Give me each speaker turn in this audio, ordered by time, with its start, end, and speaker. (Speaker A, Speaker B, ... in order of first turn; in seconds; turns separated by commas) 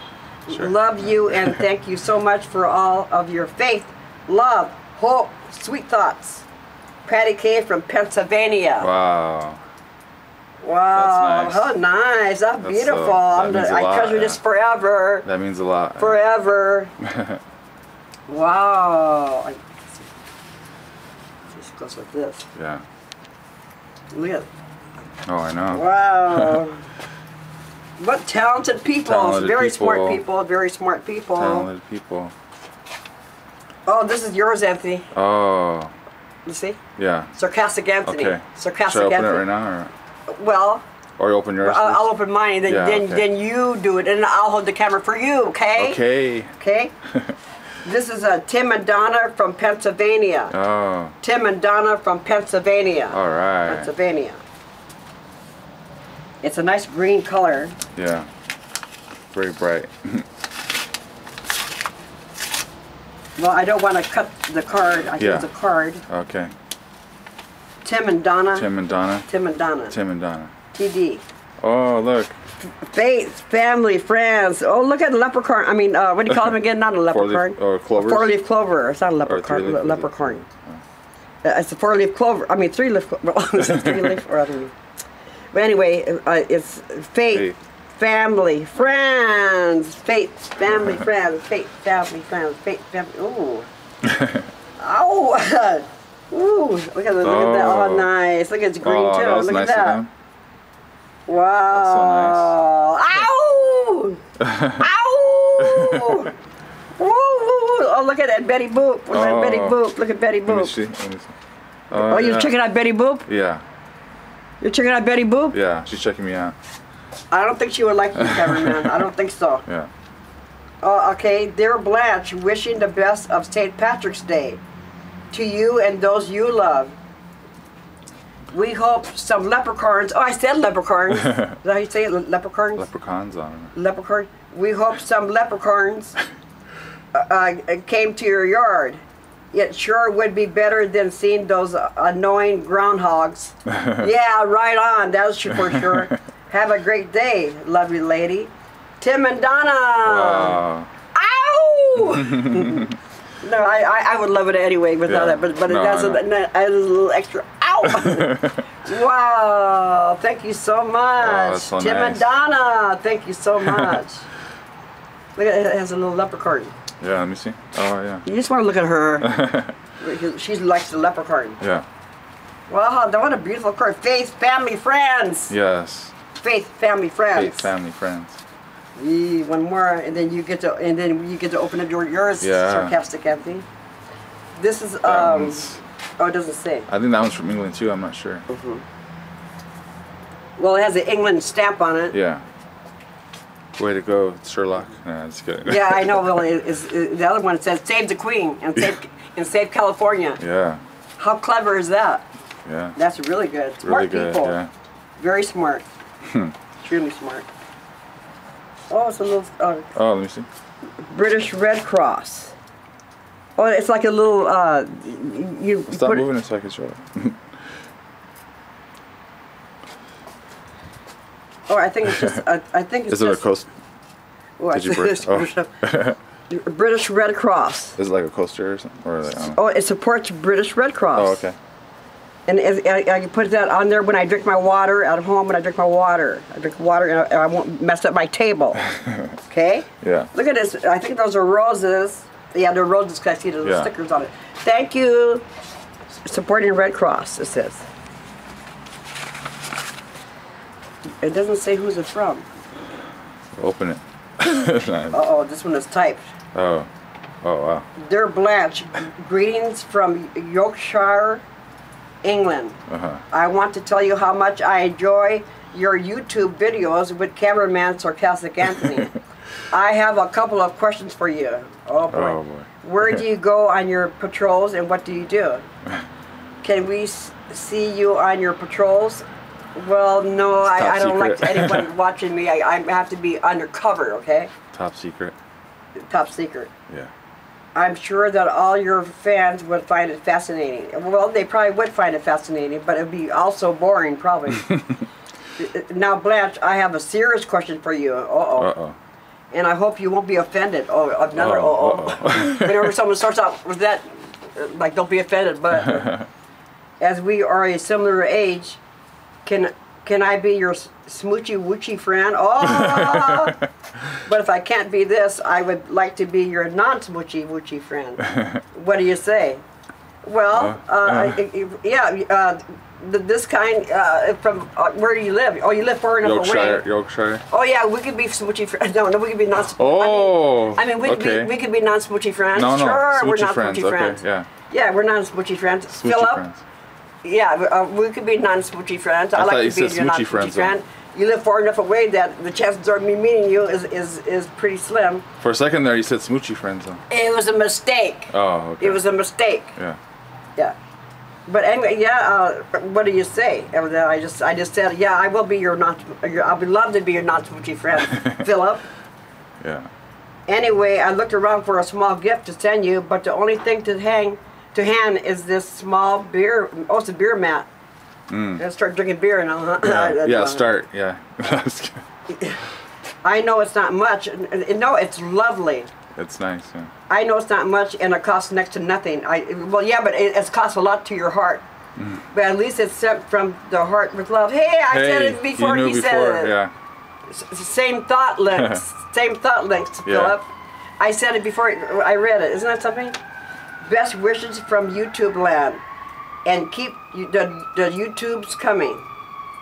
Speaker A: 0.5-6.5, Speaker B: 0.5-1.6, Speaker A: 7.0-8.9, Speaker B: 8.8-9.6, Speaker A: 10.6-15.2, Speaker B: 10.9-11.7, Speaker B: 12.6-14.4, Speaker B: 15.2-16.2, Speaker A: 16.0-16.9, Speaker B: 17.0-17.4, Speaker A: 18.3-20.1, Speaker A: 21.6-22.5, Speaker B: 22.6-22.8, Speaker A: 24.1-24.5, Speaker B: 25.3-26.6, Speaker A: 25.7-26.8, Speaker A: 28.0-31.7, Speaker B: 29.1-30.2, Speaker B: 31.4-32.3, Speaker A: 33.9-35.1, Speaker B: 35.1-35.9, Speaker A: 36.5-36.8, Speaker B: 37.0-37.3, Speaker A: 37.4-39.5, Speaker B: 38.0-39.9, Speaker A: 40.3-40.8, Speaker B: 41.2-42.1, Speaker A: 41.6-46.0, Speaker B: 42.7-43.2, Speaker B: 45.8-46.5, Speaker A: 46.6-46.9, Speaker B: 47.1-47.4, Speaker A: 47.8-50.5, Speaker B: 50.5-51.1, Speaker A: 51.2-54.4, Speaker B: 53.1-53.9, Speaker A: 56.4-57.8, Speaker B: 58.0-58.3, Speaker B: 59.3-60.3, Speaker A: 63.4-66.0, Speaker B: 65.2-65.5, Speaker B: 66.1-66.5, Speaker A: 67.8-68.7, Speaker B: 68.5-69.3, Speaker A: 69.3-70.0, Speaker B: 69.9-70.5, Speaker A: 70.7-71.2, Speaker B: 71.6-72.4, Speaker A: 72.7-80.4, Speaker B: 77.1-78.3, Speaker B: 79.3-80.8, Speaker A: 81.4-84.7, Speaker B: 83.6-84.2, Speaker A: 85.5-93.7, Speaker B: 87.3-87.6, Speaker B: 90.7-91.0, Speaker B: 94.0-94.5, Speaker A: 94.8-100.0, Speaker B: 97.2-98.1, Speaker B: 98.8-100.1, Speaker A: 101.3-104.2, Speaker B: 101.7-102.5, Speaker B: 104.4-104.9, Speaker A: 104.8-106.3, Speaker B: 105.6-106.3, Speaker A: 107.0-110.7, Speaker B: 109.1-109.8, Speaker B: 110.5-111.3, Speaker B: 111.9-112.5, Speaker A: 111.9-113.3, Speaker B: 113.3-113.6, Speaker A: 114.6-115.6, Speaker B: 115.5-116.6, Speaker A: 117.3-119.6, Speaker B: 118.2-119.1, Speaker A: 120.8-124.6, Speaker A: 125.3-127.0, Speaker A: 128.5-132.9, Speaker B: 132.8-133.7, Speaker A: 133.8-136.2, Speaker A: 137.1-139.0, Speaker A: 139.5-150.6, Speaker B: 143.7-144.1, Speaker B: 145.5-146.0, Speaker B: 150.1-150.9, Speaker A: 151.1-164.2, Speaker B: 152.0-153.0, Speaker B: 155.1-156.2, Speaker B: 157.8-158.6, Speaker B: 161.2-162.3, Speaker B: 163.6-164.0, Speaker A: 165.4-166.7, Speaker B: 167.0-168.2, Speaker A: 168.2-169.3, Speaker B: 169.2-169.8, Speaker A: 170.0-171.6, Speaker B: 171.6-171.9, Speaker A: 172.7-175.5, Speaker B: 175.5-176.2, Speaker A: 176.4-177.7, Speaker B: 177.3-178.4, Speaker A: 179.0-183.7, Speaker B: 182.4-183.0, Speaker A: 184.6-186.9, Speaker B: 185.1-185.8, Speaker B: 186.9-188.5, Speaker A: 188.5-188.8, Speaker A: 190.6-192.2, Speaker B: 192.1-192.4, Speaker B: 193.8-196.4, Speaker A: 195.7-200.4, Speaker B: 200.4-200.8, Speaker A: 201.2-202.2, Speaker B: 202.7-203.0, Speaker A: 203.0-204.6, Speaker B: 203.8-204.7, Speaker A: 205.2-205.9, Speaker B: 206.3-206.5, Speaker A: 206.8-207.5, Speaker A: 208.9-209.9, Speaker B: 209.9-210.5, Speaker A: 211.1-212.6, Speaker A: 213.6-216.3, Speaker B: 215.9-217.4, Speaker A: 221.7-223.4, Speaker B: 223.1-223.7, Speaker A: 224.6-225.7, Speaker B: 224.7-226.2, Speaker A: 226.5-228.0, Speaker B: 228.0-229.6, Speaker A: 229.4-231.4, Speaker B: 231.2-231.6, Speaker A: 232.5-238.9, Speaker B: 238.9-239.3, Speaker A: 239.5-245.4, Speaker B: 240.0-240.3, Speaker B: 243.6-243.9, Speaker A: 246.2-247.8, Speaker A: 251.2-252.4, Speaker B: 253.6-255.2, Speaker A: 255.1-256.2, Speaker B: 256.5-256.9, Speaker B: 257.4-257.9, Speaker A: 258.0-261.4, Speaker A: 262.2-262.8, Speaker B: 262.9-263.2, Speaker A: 263.3-269.1, Speaker A: 269.7-275.6, Speaker B: 272.1-273.2, Speaker A: 276.6-279.2, Speaker A: 279.8-284.5, Speaker B: 280.6-281.9, Speaker B: 284.7-285.4, Speaker A: 286.1-286.7, Speaker A: 287.8-294.8, Speaker B: 294.6-295.0, Speaker A: 295.6-298.7, Speaker B: 298.6-299.0, Speaker A: 299.5-306.2, Speaker B: 301.4-302.9, Speaker B: 305.7-306.3, Speaker A: 307.0-308.8, Speaker A: 309.4-313.6, Speaker B: 312.6-313.7, Speaker A: 314.1-319.6, Speaker B: 318.3-318.6, Speaker A: 320.2-326.9, Speaker B: 320.5-321.4, Speaker B: 326.2-327.4, Speaker A: 327.5-336.4, Speaker B: 329.8-331.5, Speaker B: 332.6-334.5, Speaker B: 335.9-336.6, Speaker A: 337.2-345.2, Speaker B: 339.4-340.8, Speaker B: 345.4-347.0, Speaker A: 347.1-349.8, Speaker B: 348.3-349.0, Speaker A: 351.5-358.8, Speaker B: 358.1-358.4, Speaker B: 359.6-359.9, Speaker A: 360.5-367.7, Speaker B: 368.3-368.6, Speaker A: 368.6-370.6, Speaker B: 369.8-372.0, Speaker A: 372.3-372.6, Speaker A: 373.2-375.9, Speaker B: 376.1-376.9, Speaker A: 377.1-381.6, Speaker B: 382.0-382.2, Speaker A: 382.3-386.6, Speaker B: 384.9-386.7, Speaker A: 387.3-390.5, Speaker B: 388.6-388.8, Speaker B: 390.1-390.4, Speaker A: 391.0-393.2, Speaker A: 393.8-395.8, Speaker A: 396.5-399.0